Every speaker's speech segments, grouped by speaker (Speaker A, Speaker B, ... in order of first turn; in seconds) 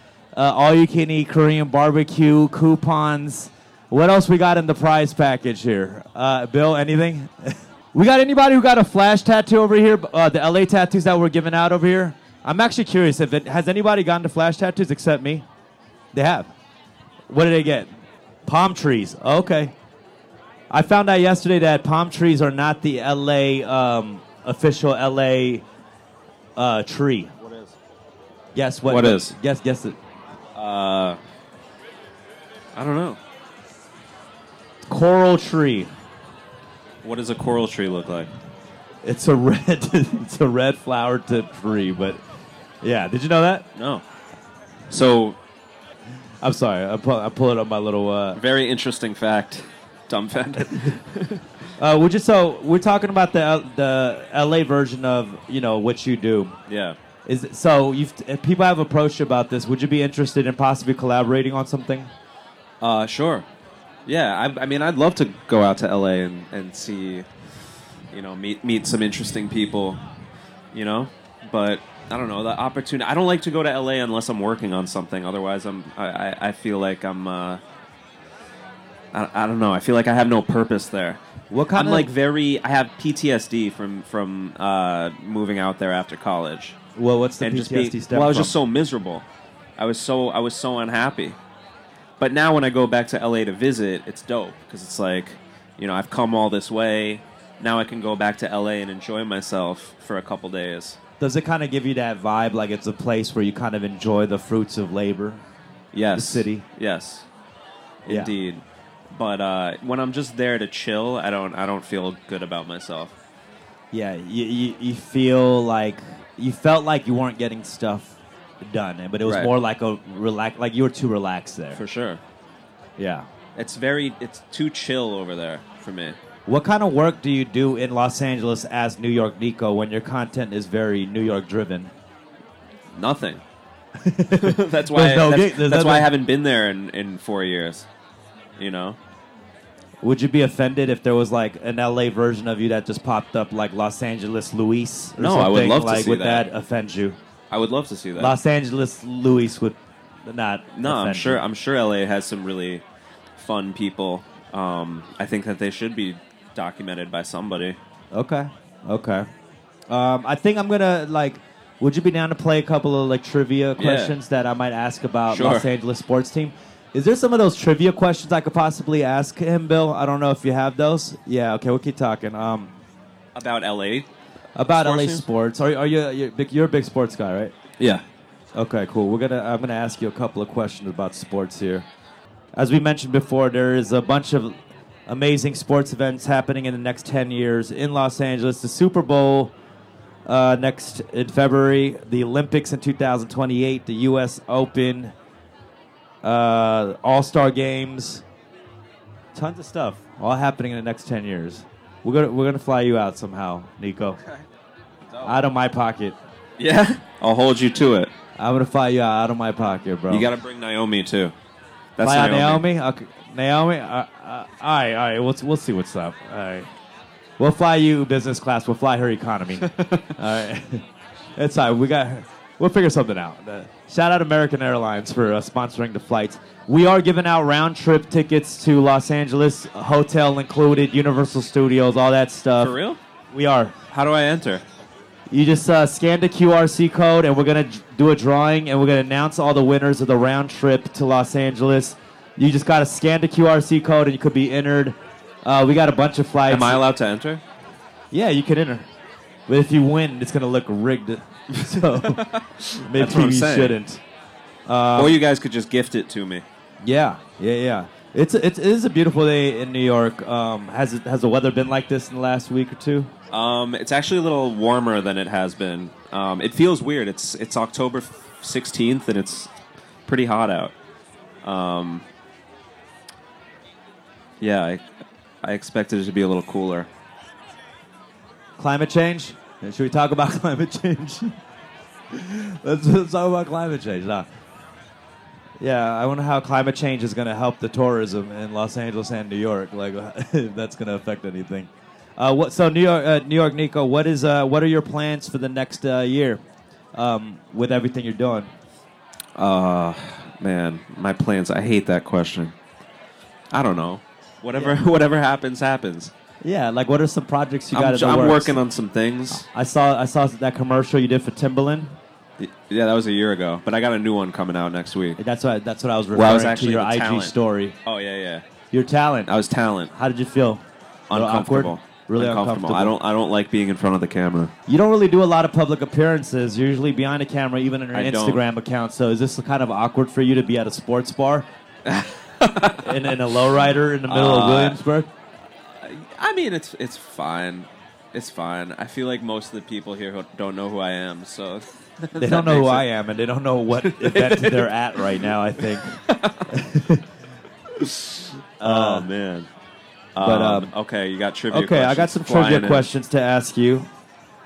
Speaker A: 0.3-15.4, 16.1-16.5, 17.3-17.9, 18.4-19.7, 20.7-25.6, 26.6-27.3, 28.5-30.0, 34.9-35.9, 39.0-42.2, 42.8-43.6, 46.4-48.4, 51.8-56.5, 57.2-62.1, 81.5-82.1, 87.0-88.5, 101.2-105.4, 106.1-106.6, 108.1-108.3, 113.9-121.8, 123.0-123.3, 126.5-131.9, 134.0-136.1, 140.0-147.2, 148.2-151.4, 158.1-159.3, 159.9-172.7, 174.6-177.5, 178.5-181.8, 182.5-189.5, 190.2-195.1, 196.2-198.2, 199.3-204.2, 205.2-206.2, 208.4-210.3, 212.0-216.7, 217.4-220.8, 221.3-232.7, 233.3-233.7, 235.3-246.8, 248.1-248.9, 249.5-252.2, 252.8-254.0, 254.7-255.2, 256.8-263.1, 278.6-281.4, 282.1-284.3, 285.6-296.4, 296.9-298.5, 306.4-308.6, 309.3-311.9, 315.2-317.8, 318.7-319.3, 319.9-322.9, 324.7-331.5, 332.8-335.1, 342.2-347.0, 348.6-349.1, 350.2-350.7, 351.5-353.9
Speaker B: 27.4-27.7, 28.9-29.3, 30.5-31.2, 32.7-33.2, 37.0-38.3, 43.8-44.0, 44.9-45.4, 48.3-51.5, 56.7-57.0, 62.8-63.5, 64.0-67.2, 68.1-70.0, 70.7-77.6, 79.1-81.2, 81.7-86.8, 87.4-89.2, 89.8-91.4, 92.2-101.0, 105.9-107.2, 108.0-113.1, 119.2-119.5, 121.7-122.2, 123.5-126.2, 132.9-133.4, 134.3-137.9, 138.6-139.0, 145.2-146.4, 147.5-148.3, 150.8-152.8, 153.3-157.8, 163.8-164.1, 165.3-165.7, 173.3-174.1, 174.8-175.2, 206.6-208.1, 210.1-211.3, 212.0-212.6, 219.6-220.1, 232.6-233.0, 233.9-234.6, 246.5-247.4, 251.5-253.8, 254.9-256.4, 263.3-269.5, 270.1-270.7, 271.4-272.0, 274.4-274.8, 275.4-276.9, 299.4-302.5, 303.5-306.1, 307.7-309.4, 312.4-315.2, 316.1-317.3, 317.9-318.4, 319.3-319.9, 321.1-324.5, 327.9-328.4, 331.8-333.1, 334.1-334.8, 335.8-342.8, 343.8-345.1, 345.8-346.5, 347.8-349.5, 350.1-352.9